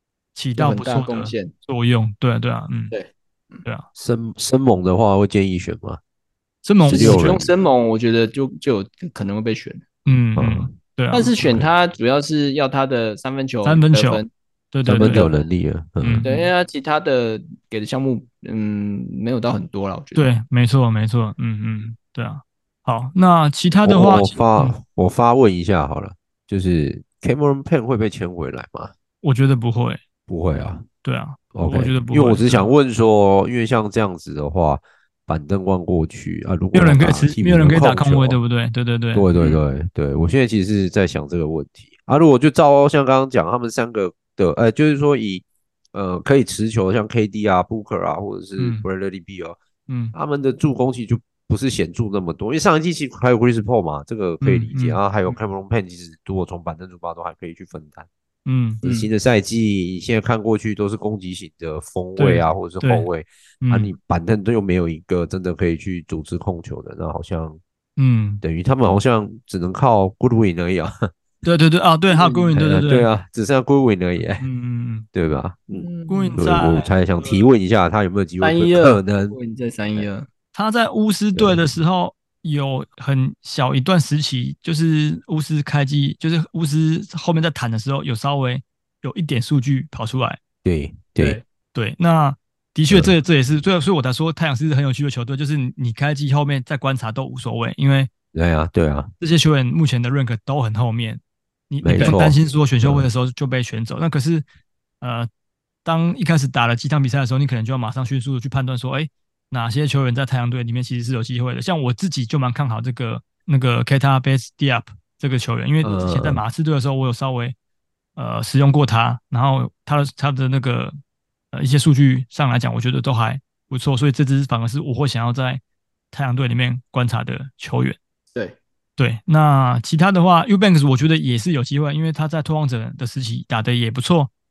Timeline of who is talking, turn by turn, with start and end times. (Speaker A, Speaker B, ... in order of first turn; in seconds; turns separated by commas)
Speaker A: 0.3-3.0, Speaker B: 0.6-1.5, Speaker B: 2.9-3.6, Speaker C: 4.0-6.0, Speaker A: 6.6-7.4, Speaker C: 6.8-7.5, Speaker B: 6.9-9.8, Speaker A: 10.1-11.3, Speaker C: 10.4-10.8, Speaker B: 11.1-14.3, Speaker C: 11.4-11.7, Speaker A: 13.6-15.3, Speaker C: 14.9-16.3, Speaker B: 14.9-15.4, Speaker A: 16.0-16.4, Speaker B: 16.2-20.3, Speaker A: 20.1-24.8, Speaker C: 23.9-28.9, Speaker A: 29.2-30.0, Speaker C: 30.3-30.9, Speaker A: 31.0-32.7, Speaker C: 31.5-38.4, Speaker A: 36.7-39.3, Speaker C: 39.1-49.6, Speaker A: 48.6-48.9, Speaker A: 49.9-50.1, Speaker C: 50.1-58.1, Speaker A: 54.4-55.3, Speaker A: 58.5-59.0, Speaker C: 58.8-67.6, Speaker A: 62.2-63.1, Speaker A: 63.6-63.9, Speaker A: 68.0-68.4, Speaker C: 68.4-70.9, Speaker A: 71.4-73.1, Speaker B: 72.1-72.5, Speaker C: 72.5-74.5, Speaker A: 74.4-75.0, Speaker C: 75.1-79.4, Speaker B: 75.8-76.9, Speaker A: 76.1-77.4, Speaker B: 78.4-80.3, Speaker A: 80.5-90.4, Speaker C: 81.3-81.6, Speaker C: 90.6-91.4, Speaker A: 91.7-98.1, Speaker C: 98.3-99.1, Speaker A: 99.2-104.5, Speaker C: 101.8-103.1, Speaker A: 105.0-105.3, Speaker A: 105.8-117.5, Speaker C: 115.8-116.4, Speaker A: 118.2-121.0, Speaker A: 121.5-128.0, Speaker A: 129.0-134.3